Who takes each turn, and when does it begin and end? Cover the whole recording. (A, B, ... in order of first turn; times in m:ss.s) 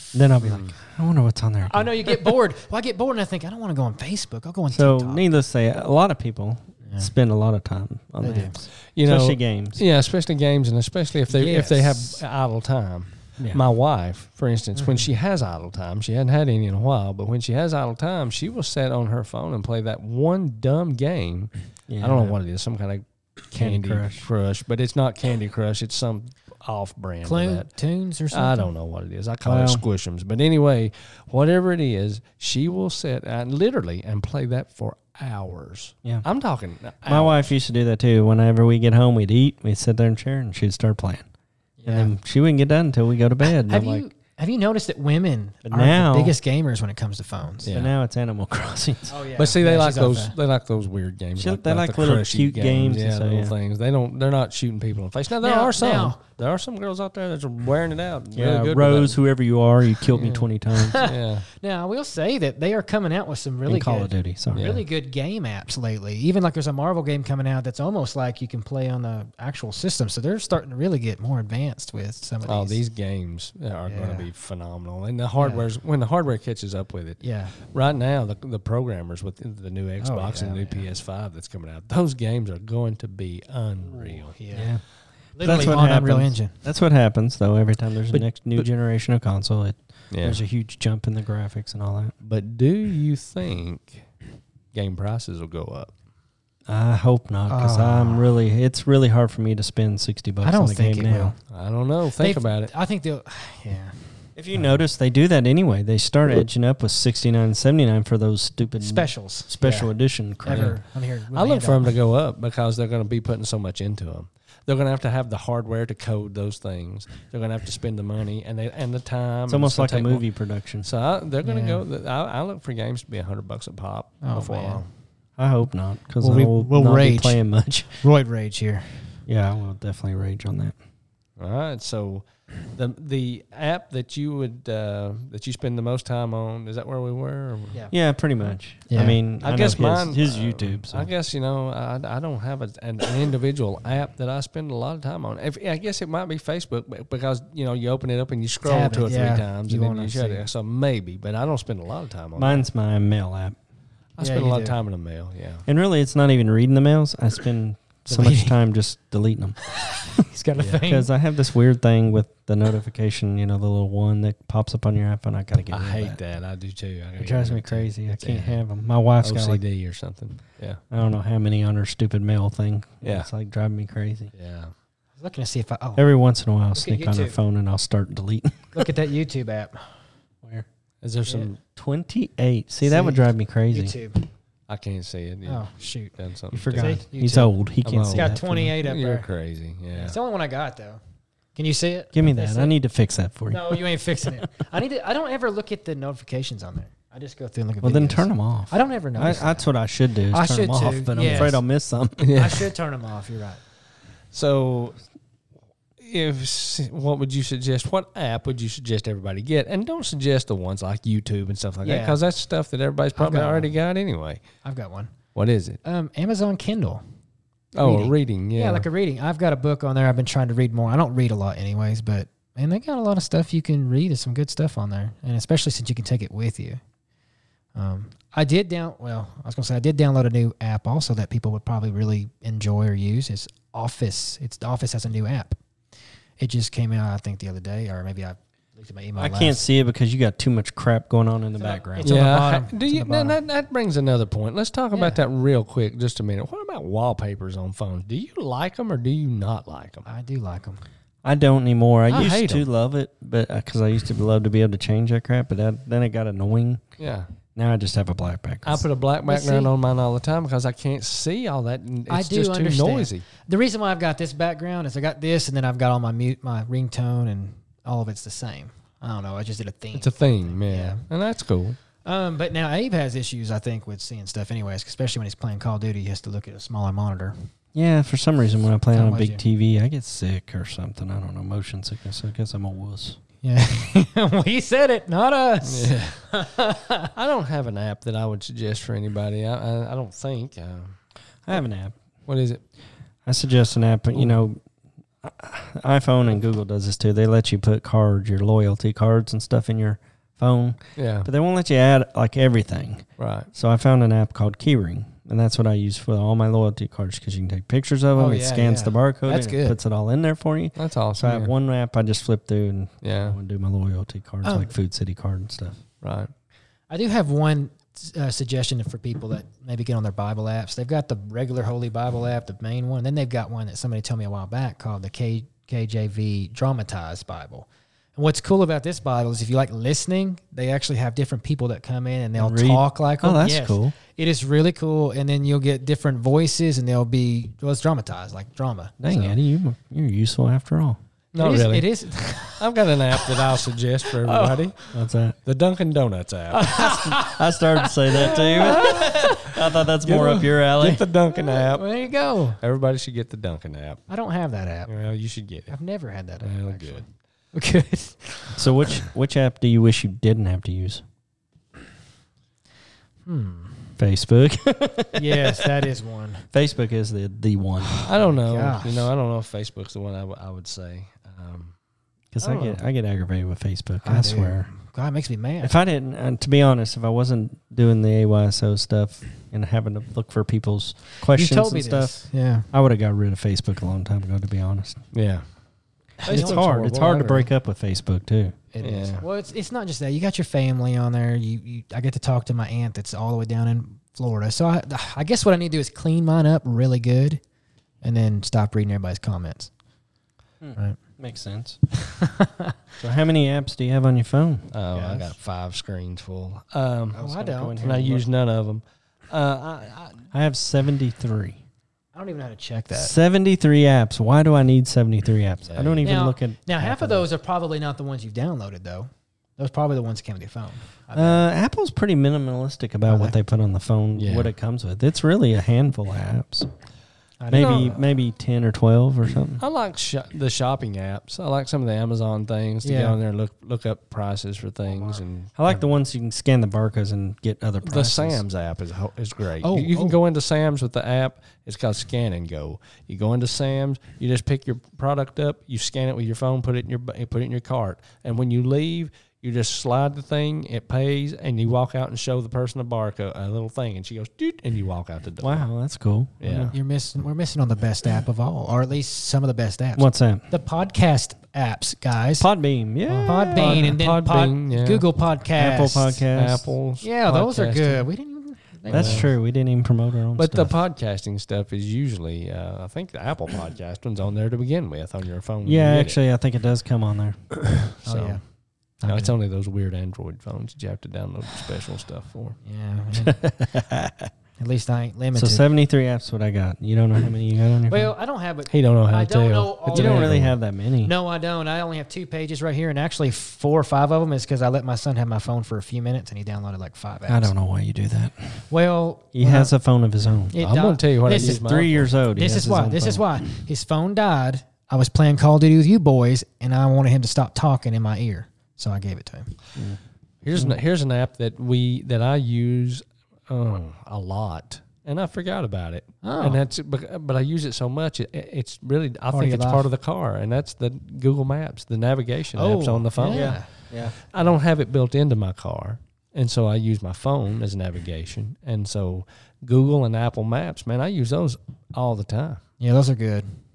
0:00.1-0:02.1 A
0:00.4-0:00.7 B
0:01.7-0:05.2 C
0:04.7-0:09.8 A
0:08.2-0:08.6 C
0:08.9-0:27.7 B
0:11.3-0:12.2 C
0:14.8-0:15.1 C
0:21.9-0:22.4 A
0:23.5-0:24.2 A
0:27.2-0:28.7 C
0:28.3-0:37.5 B
0:29.4-0:29.8 A
0:37.0-0:41.2 A
0:41.8-0:42.1 C
0:41.8-0:44.0 A
0:43.4-0:47.7 C
0:45.6-0:46.3 A
0:47.6-0:47.9 B
0:47.7-0:49.2 A
0:49.1-0:50.3 C
0:49.4-0:59.2 B
0:51.4-0:53.5 A
0:55.4-0:56.2 C
0:58.3-1:01.1 A
1:00.1-1:01.4 B
1:00.7-1:12.8 C
1:03.7-1:04.7 A
1:04.5-1:04.8 B
1:12.4-1:24.4 B
1:13.9-1:14.3 C
1:15.4-1:15.6 C
1:17.2-1:17.5 C
1:20.0-1:20.9 C
1:24.0-1:24.7 C
1:24.5-1:24.8 A
1:25.4-1:26.5 C
1:25.4-1:32.1 A
1:28.1-1:28.6 B
1:30.1-1:30.4 B
1:32.2-1:34.0 B
1:34.7-1:35.9 B
1:36.7-1:41.3 A
1:37.5-1:38.3 C
1:40.4-1:41.3 C
1:41.5-1:42.7 B
1:42.2-1:44.0 C
1:44.4-1:50.8 A
1:48.8-1:51.9 C
1:50.5-1:50.8 B
1:51.3-2:00.2 B
1:59.5-2:00.9 A
2:00.8-2:04.9 B
2:01.4-2:01.8 C
2:04.2-2:04.8 C
2:05.4-2:08.0 A
2:06.2-2:07.4 C
2:07.9-2:09.1 C
2:09.3-2:10.8 A
2:11.4-2:17.8 B
2:17.9-2:21.1 A
2:18.9-2:19.2 C
2:19.4-2:32.6 B
2:28.6-2:30.4 C
2:32.4-2:33.6 A
2:34.2-2:35.6 B
2:34.2-2:34.8 C
2:35.6-2:39.6 A
2:38.1-2:38.6 C
2:39.7-2:41.1 C
2:40.7-2:46.2 A
2:45.7-2:48.6 B
2:47.2-2:49.6 A
2:49.2-2:50.8 B
2:50.9-2:54.3 A
2:53.0-2:53.3 B
2:54.3-2:54.7 B
2:55.2-2:56.0 C
2:56.0-2:58.8 A
2:56.7-2:57.4 C
2:58.7-2:59.8 C
3:01.0-3:01.6 B
3:01.8-3:03.9 A
3:02.8-3:04.2 C
3:04.7-3:07.0 B
3:05.4-3:06.1 C
3:06.5-3:08.7 A
3:06.7-3:07.5 C
3:07.8-3:10.2 B
3:08.1-3:09.3 C
3:09.9-3:11.0 C
3:11.6-3:12.7 C
3:12.1-3:13.8 A
3:13.5-3:19.7 C
3:17.8-3:22.3 A
3:20.3-3:21.6 C
3:21.2-3:21.5 B
3:22.2-3:22.7 B
3:22.3-3:23.6 C
3:24.3-3:25.0 B
3:26.0-3:34.4 B
3:31.8-3:32.2 C
3:33.2-3:33.7 C
3:34.6-3:35.1 C
3:35.3-3:35.8 B
3:35.8-3:37.0 C
3:37.8-3:38.8 B
3:37.8-3:46.8 C
3:47.7-3:55.6 C
3:56.4-3:59.6 C
3:59.2-4:02.1 A
4:01.6-4:03.4 C
4:02.0-4:10.1 B
4:04.9-4:05.2 C
4:10.0-4:10.8 C
4:11.2-4:16.8 A
4:12.1-4:12.7 B
4:17.0-4:17.3 B
4:17.5-4:18.8 A
4:18.6-4:23.2 B
4:19.2-4:19.7 C
4:22.1-4:31.0 C
4:29.9-4:31.8 B
4:32.0-4:37.3 C
4:37.7-4:43.2 A
4:38.9-4:39.4 C
4:43.4-4:47.1 C
4:45.6-4:46.2 B
4:47.1-4:51.0 B
4:51.4-4:52.0 A
4:52.3-4:52.6 B
4:53.2-4:54.6 A
4:55.2-5:15.8 A
5:01.0-5:01.3 B
5:03.2-5:03.5 B
5:08.1-5:09.8 C
5:10.8-5:11.5 B
5:13.0-5:13.4 B
5:14.4-5:14.7 C
5:16.0-5:16.3 B
5:16.9-5:39.3 C
5:32.4-5:33.9 A
5:39.0-5:41.0 A
5:41.3-5:41.9 B
5:41.4-5:42.6 C
5:42.6-5:44.9 B
5:43.2-5:43.5 C
5:44.1-5:44.7 C
5:44.9-5:45.4 A
5:45.4-5:46.8 B
5:46.5-5:49.6 C
5:46.7-5:51.0 A
5:48.3-5:49.2 B
5:50.0-5:51.9 B
5:51.3-5:52.6 C
5:52.6-5:54.0 B
5:54.1-5:54.9 C
5:54.9-5:55.7 B
5:55.7-5:58.7 C
5:56.4-5:57.0 B
5:58.5-6:01.0 A
6:03.2-6:03.9 C
6:04.0-6:05.8 A
6:05.1-6:06.5 C
6:06.5-6:08.0 A
6:07.9-6:09.1 C
6:08.0-6:11.7 B
6:12.3-6:14.7 A
6:12.4-6:12.8 C
6:14.0-6:15.7 C
6:15.6-6:22.1 A
6:21.3-6:22.7 C
6:22.7-6:25.0 A
6:25.1-6:25.4 B
6:26.2-6:27.5 B
6:26.2-6:26.7 C
6:26.2-6:28.6 A
6:28.7-6:37.4 C
6:28.8-6:29.2 B
6:38.0-6:39.7 C
6:40.6-6:41.8 A
6:42.0-6:42.7 C
6:43.0-6:44.7 A
6:44.7-6:47.2 B
6:44.9-6:45.3 C
6:47.1-6:48.0 C
6:47.2-6:48.2 A
6:47.8-6:50.3 B
6:50.3-6:51.6 A
6:52.1-6:53.1 C
6:52.9-6:57.3 A
6:55.7-6:56.1 B
6:56.0-7:01.4 C
7:01.1-7:06.7 A
7:03.0-7:03.4 C
7:04.2-7:04.5 B
7:07.4-7:08.0 C
7:07.5-7:09.6 A
7:07.5-7:07.9 B
7:09.6-7:15.6 B
7:12.8-7:13.2 C
7:15.6-7:18.4 A
7:17.8-7:35.6 B
7:19.6-7:20.2 C
7:35.4-7:36.7 A
7:36.4-7:36.7 B
7:36.7-7:42.5 C
7:40.0-7:40.4 A
7:42.4-7:43.9 A
7:43.1-7:46.2 C
7:43.5-7:45.0 B
7:45.6-7:46.7 A
7:46.3-7:48.0 B
7:47.0-7:49.3 C
7:48.9-7:49.3 B
7:48.9-7:50.7 A
7:50.4-7:56.2 B
7:55.6-7:57.4 A
7:57.7-7:58.4 B
7:58.0-7:58.4 C
7:59.0-7:59.3 C
7:59.1-8:02.6 B
8:02.6-8:03.4 C
8:03.2-8:04.3 A
8:04.6-8:05.6 C
8:05.4-8:08.1 A
8:07.9-8:10.4 C
8:08.7-8:10.5 B
8:09.9-8:11.1 A
8:11.0-8:17.5 C
8:17.3-8:18.6 A
8:18.7-8:19.7 C
8:19.3-8:20.6 A
8:20.5-8:21.6 C
8:20.6-8:22.1 B
8:21.3-8:23.4 A
8:22.3-8:29.5 C
8:30.4-8:52.6 B
8:30.5-8:30.8 A
8:36.2-8:36.6 C
8:39.3-8:39.9 C
8:42.6-8:43.7 C
8:43.3-8:44.2 A
8:52.8-8:53.5 C